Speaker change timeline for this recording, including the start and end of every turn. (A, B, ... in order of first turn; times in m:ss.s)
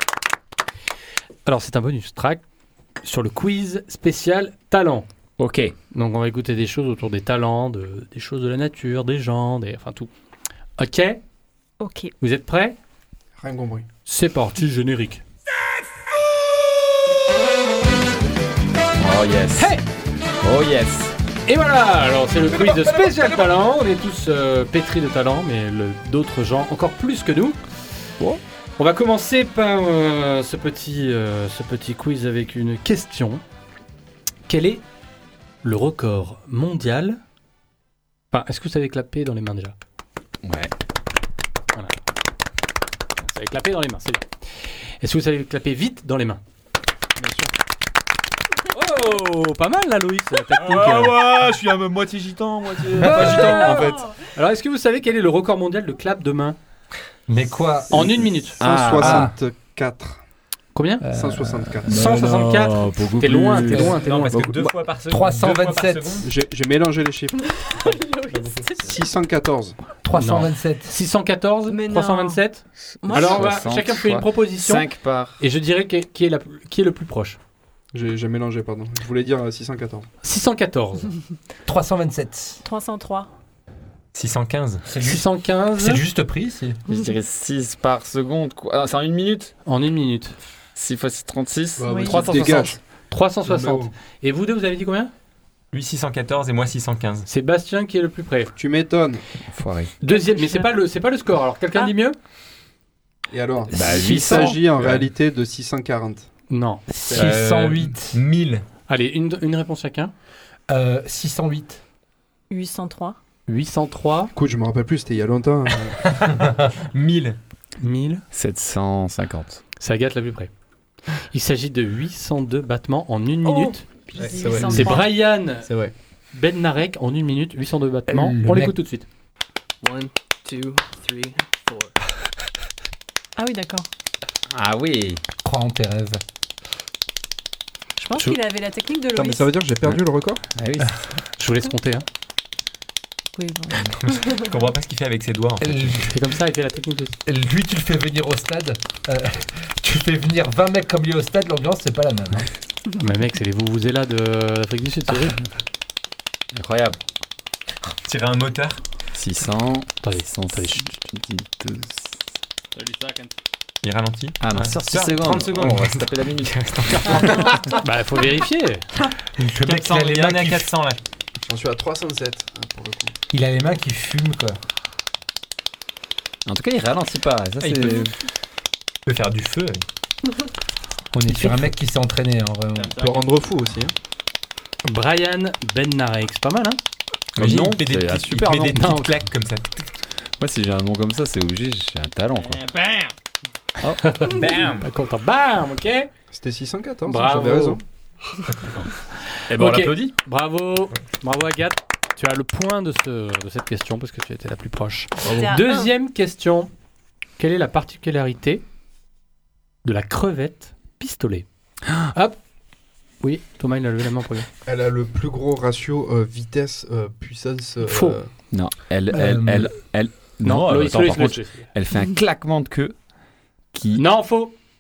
0:01.4-0:02.4 A
0:03.0-0:05.1 A
0:05.4-0:05.8 B
0:05.9-0:10.1 A
0:10.8-0:11.2 A
0:11.8-0:12.1 C
0:12.2-0:12.8 A
0:13.4-0:13.8 D
0:14.1-0:15.2 A
0:19.0-0:19.8 B
0:19.6-0:19.8 A
0:20.4-0:21.2 B
0:21.5-0:27.6 A
0:28.8-0:33.4 A
0:34.5-0:34.8 A
0:35.6-0:37.2 A
0:38.3-0:39.8 A
0:40.4-0:40.7 B
0:43.2-0:44.3 A
0:45.0-0:46.4 A
0:47.2-0:47.5 D
0:48.7-0:51.2 A
0:50.5-0:54.0 B
0:53.0-0:56.6 A
0:53.0-0:53.7 E
0:57.3-0:58.2 E
0:57.9-0:58.6 A
0:58.6-0:59.3 B
0:58.6-1:00.2 D
0:59.0-0:59.3 E
1:00.7-1:01.1 A
1:01.0-1:01.9 E
1:01.1-1:02.0 D
1:01.8-1:04.5 B
1:01.9-1:04.5 A
1:03.6-1:06.3 F
1:05.1-1:06.3 E
1:06.2-1:07.4 D
1:07.4-1:09.0 C
1:08.3-1:08.7 F
1:08.9-1:09.8 D
1:10.0-1:11.0 E
1:10.1-1:14.9 A
1:11.7-1:12.4 C
1:13.0-1:13.4 C
1:13.0-1:15.4 B
1:15.4-1:17.4 A
1:17.9-1:20.1 D
1:20.2-1:21.2 A
1:21.7-1:22.6 E
1:22.6-1:23.3 C
1:24.1-1:24.9 F
1:24.9-1:26.8 E
1:25.0-1:26.0 A
1:26.9-1:29.5 B
1:29.6-1:30.4 A
1:30.8-1:32.6 B
1:31.8-1:32.8 D
1:31.9-1:32.2 C
1:32.0-1:35.1 A
1:33.5-1:33.9 D
1:35.7-1:37.3 F
1:37.3-1:38.5 A
1:38.6-1:39.2 D
1:39.4-1:39.9 B
1:40.0-1:42.2 A
1:40.0-1:40.7 C
1:43.3-1:46.3 D
1:43.7-1:45.1 B
1:46.5-1:46.9 A
1:46.9-1:48.2 E
1:47.1-1:48.6 F
1:47.2-1:47.8 B
1:48.9-1:50.1 A
1:50.7-1:51.8 E
1:52.5-1:53.2 C
1:53.5-1:54.3 A
1:54.4-1:56.1 D
1:56.0-1:57.4 F
1:57.8-1:58.2 A
1:58.3-1:59.6 B
1:59.8-2:00.5 A
2:01.2-2:03.8 A
2:03.4-2:05.1 C
2:04.2-2:05.0 D
2:04.7-2:05.7 A
2:05.7-2:05.9 D
2:06.3-2:09.0 A
2:08.1-2:08.8 E
2:09.8-2:11.9 G
2:13.4-2:13.9 C
2:14.5-2:15.2 B
2:15.4-2:16.2 E
2:18.0-2:19.6 C
2:19.1-2:20.4 D
2:20.6-2:21.2 B
2:21.4-2:22.1 A
2:23.4-2:24.5 C
2:24.0-2:26.0 F
2:25.6-2:26.2 E
2:26.1-2:27.2 A
2:27.3-2:32.5 E
2:33.0-2:35.4 A
2:36.5-2:37.0 B
2:38.0-2:38.8 F
2:39.1-2:42.2 B
2:40.0-2:40.9 A
2:42.8-2:43.3 G
2:43.8-2:47.7 F
2:44.4-2:47.7 B
2:47.7-2:48.9 A
2:49.4-2:50.6 E
2:49.7-2:51.0 F
2:49.7-2:50.6 B
2:51.5-2:53.1 D
2:53.3-2:54.6 E
2:56.5-2:58.2 B
2:57.6-2:58.0 F
2:59.1-2:59.8 F
3:01.1-3:03.1 E
3:01.3-3:01.6 A
3:02.9-3:03.3 G
3:03.0-3:03.9 D
3:04.9-3:06.8 A
3:07.3-3:09.9 F
3:07.4-3:08.8 B
3:08.7-3:09.1 A
3:10.4-3:12.6 B
3:13.8-3:14.3 B
3:14.0-3:16.1 A
3:14.3-3:14.9 F
3:16.3-3:17.8 D
3:17.1-3:17.8 A
3:18.5-3:26.7 A
3:19.5-3:20.1 B
3:25.2-3:25.5 D
3:25.3-3:25.9 C
3:27.4-3:28.6 A
3:29.8-3:32.4 A
3:33.2-3:34.5 A
3:34.7-3:38.3 D
3:37.8-3:38.2 A
3:38.5-3:43.0 B
3:39.1-3:39.7 E
3:40.4-3:41.7 A
3:43.7-3:44.2 B
3:44.0-3:44.6 A